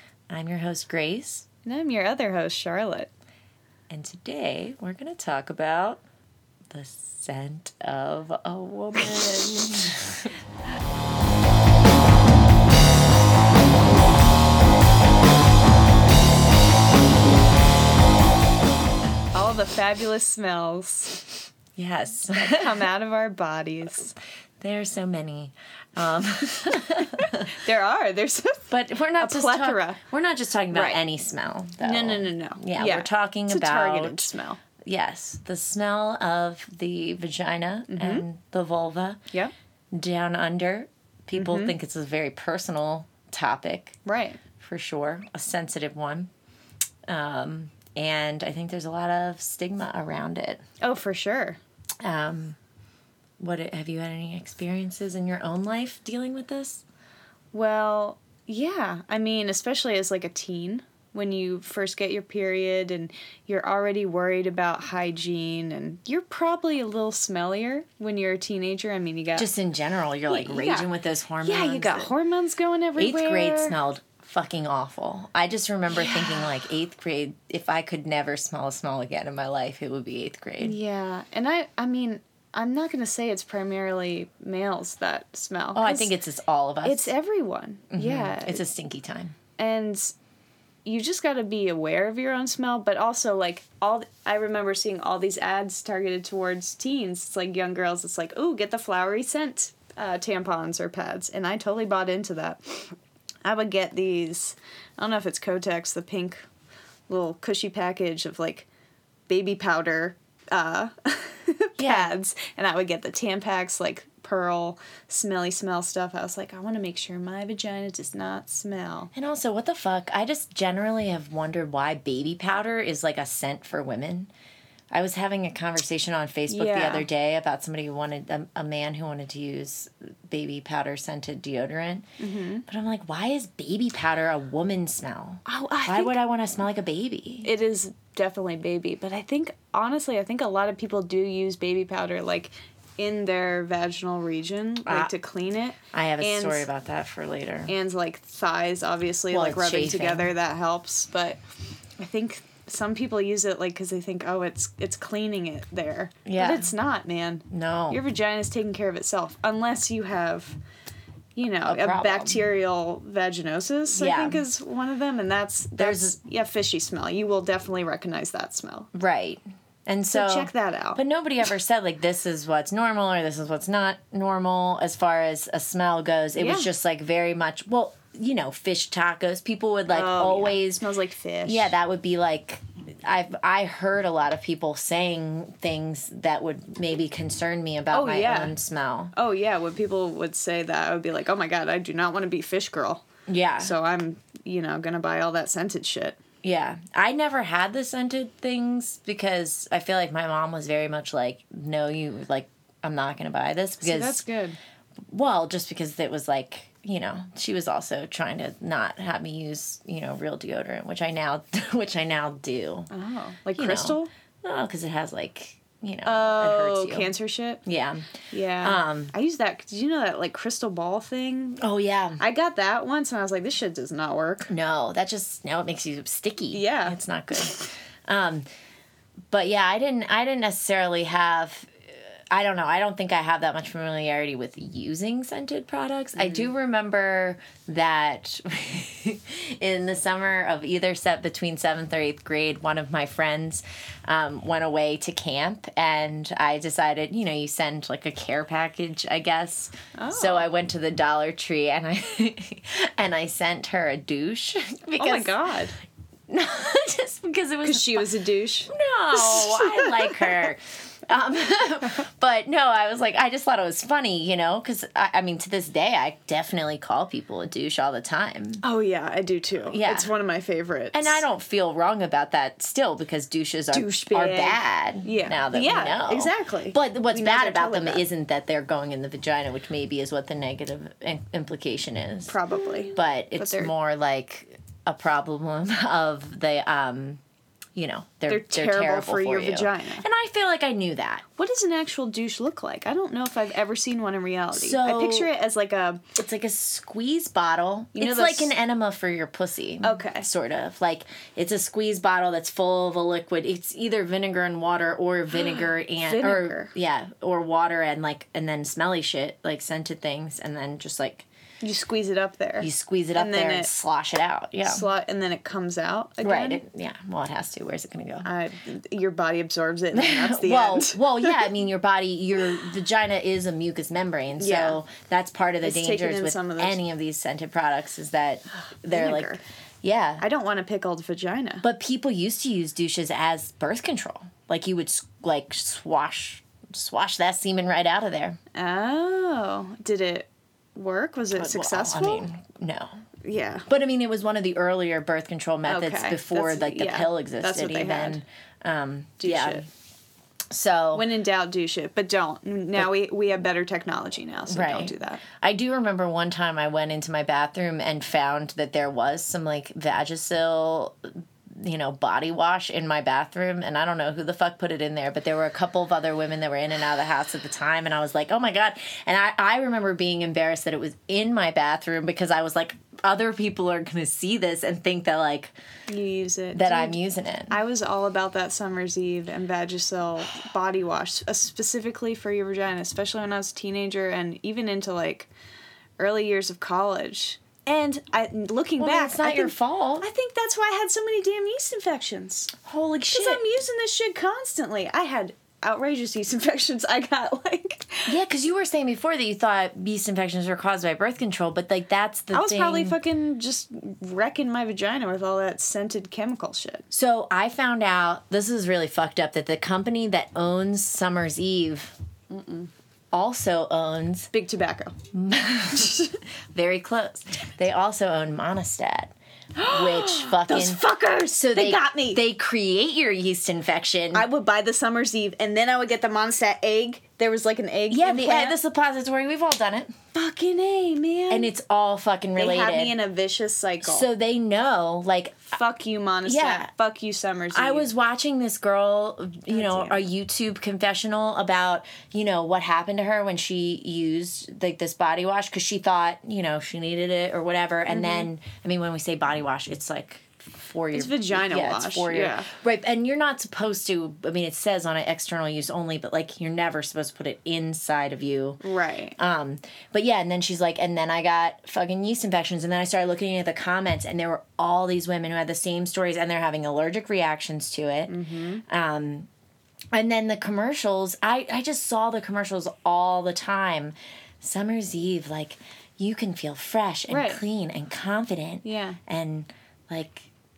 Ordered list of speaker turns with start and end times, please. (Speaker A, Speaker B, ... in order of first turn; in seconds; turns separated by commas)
Speaker A: 0.3-1.5, Speaker B: 1.7-3.1, Speaker A: 3.9-6.0, Speaker A: 6.7-10.4, Speaker B: 19.3-21.3, Speaker A: 21.8-22.9, Speaker B: 22.4-24.1, Speaker A: 24.6-27.5, Speaker B: 26.9-30.0, Speaker A: 28.7-39.2, Speaker B: 30.7-31.0, Speaker B: 31.8-34.6, Speaker B: 37.9-38.3, Speaker A: 39.9-44.0, Speaker B: 41.3-41.7, Speaker B: 44.0-44.4, Speaker A: 44.6-46.3, Speaker A: 47.1-50.6, Speaker B: 50.8-51.6, Speaker A: 52.0-52.6, Speaker A: 53.4-56.8, Speaker B: 57.5-69.5, Speaker A: 69.3-72.1, Speaker B: 70.3-70.9, Speaker B: 71.4-73.8, Speaker A: 73.0-80.8, Speaker B: 76.0-76.5, Speaker B: 80.6-86.1, Speaker A: 85.8-87.1, Speaker B: 86.8-88.6, Speaker A: 87.9-89.4, Speaker B: 89.6-90.2, Speaker B: 90.8-106.5, Speaker B: 107.1-108.7, Speaker B: 109.3-119.1, Speaker A: 111.8-112.1, Speaker A: 119.1-124.3, Speaker A: 124.9-132.1, Speaker B: 126.5-127.1, Speaker B: 132.2-132.7, Speaker A: 132.7-137.5, Speaker B: 135.5-136.2, Speaker B: 137.4-146.7, Speaker A: 144.9-145.1, Speaker A: 145.9-147.7, Speaker B: 147.7-151.4, Speaker A: 149.3-150.3, Speaker B: 152.0-160.6, Speaker A: 156.3-156.7, Speaker A: 157.5-158.0, Speaker B: 161.4-168.9, Speaker A: 161.6-162.4, Speaker A: 163.9-164.4, Speaker A: 165.8-166.2, Speaker A: 168.9-180.8, Speaker B: 170.1-171.0, Speaker B: 176.4-176.7, Speaker B: 179.9-181.7, Speaker A: 181.4-189.1, Speaker B: 187.9-188.6, Speaker B: 189.2-193.1, Speaker A: 193.3-193.8, Speaker B: 193.6-196.2, Speaker A: 196.4-204.2, Speaker B: 203.8-204.6, Speaker A: 205.1-212.9, Speaker B: 212.9-214.1, Speaker A: 213.6-217.1, Speaker B: 216.1-217.6, Speaker A: 217.6-219.1, Speaker B: 218.3-221.6, Speaker A: 221.6-222.2, Speaker B: 222.2-224.5, Speaker A: 224.5-228.4, Speaker B: 226.5-227.0, Speaker A: 229.3-255.3, Speaker B: 236.2-236.5, Speaker B: 249.9-250.5, Speaker B: 255.0-255.8, Speaker A: 256.3-258.1, Speaker B: 257.6-260.4, Speaker A: 258.7-268.6, Speaker B: 268.6-271.2, Speaker A: 269.7-270.1, Speaker A: 270.9-282.4, Speaker B: 273.7-278.0, Speaker B: 282.3-283.7, Speaker A: 282.9-287.2, Speaker A: 287.8-291.2, Speaker B: 288.3-290.1, Speaker B: 291.4-296.0, Speaker A: 294.5-295.3, Speaker A: 296.1-311.3, Speaker B: 297.9-298.6, Speaker B: 299.8-300.3, Speaker B: 305.4-306.7, Speaker B: 311.6-313.7, Speaker A: 312.6-314.9, Speaker B: 314.6-316.6, Speaker A: 316.2-318.3, Speaker B: 318.2-321.5, Speaker A: 319.9-330.2, Speaker B: 324.4-324.8, Speaker B: 325.6-326.8, Speaker B: 328.9-329.4, Speaker B: 330.2-331.6, Speaker A: 331.6-338.4, Speaker B: 338.5-342.3, Speaker A: 341.3-343.0, Speaker B: 343.2-343.7, Speaker A: 343.7-349.7, Speaker B: 345.7-348.2, Speaker B: 349.2-349.6, Speaker A: 350.5-351.1, Speaker B: 350.9-355.2, Speaker A: 354.5-375.5, Speaker B: 375.9-385.3, Speaker A: 376.5-377.6, Speaker B: 386.0-392.5, Speaker A: 388.8-390.1, Speaker A: 392.6-393.4, Speaker B: 393.1-398.1, Speaker A: 398.1-403.0, Speaker B: 402.3-406.9, Speaker A: 406.9-411.9, Speaker B: 412.3-412.7, Speaker A: 413.1-414.3, Speaker B: 414.3-415.0, Speaker A: 415.1-419.1, Speaker B: 415.7-416.2, Speaker B: 419.6-422.2, Speaker A: 419.7-420.8, Speaker A: 421.4-424.3, Speaker B: 424.1-428.6, Speaker A: 427.9-429.9, Speaker B: 430.1-431.5, Speaker A: 431.3-433.0, Speaker B: 432.4-434.1, Speaker A: 433.8-435.6, Speaker B: 435.5-437.9, Speaker A: 436.3-436.7, Speaker A: 437.5-458.6, Speaker B: 439.5-440.1, Speaker B: 447.9-448.3, Speaker B: 450.9-452.5, Speaker B: 458.6-459.2, Speaker A: 459.2-469.3, Speaker B: 468.1-468.6, Speaker A: 469.9-480.3, Speaker B: 477.1-477.4, Speaker B: 478.6-479.0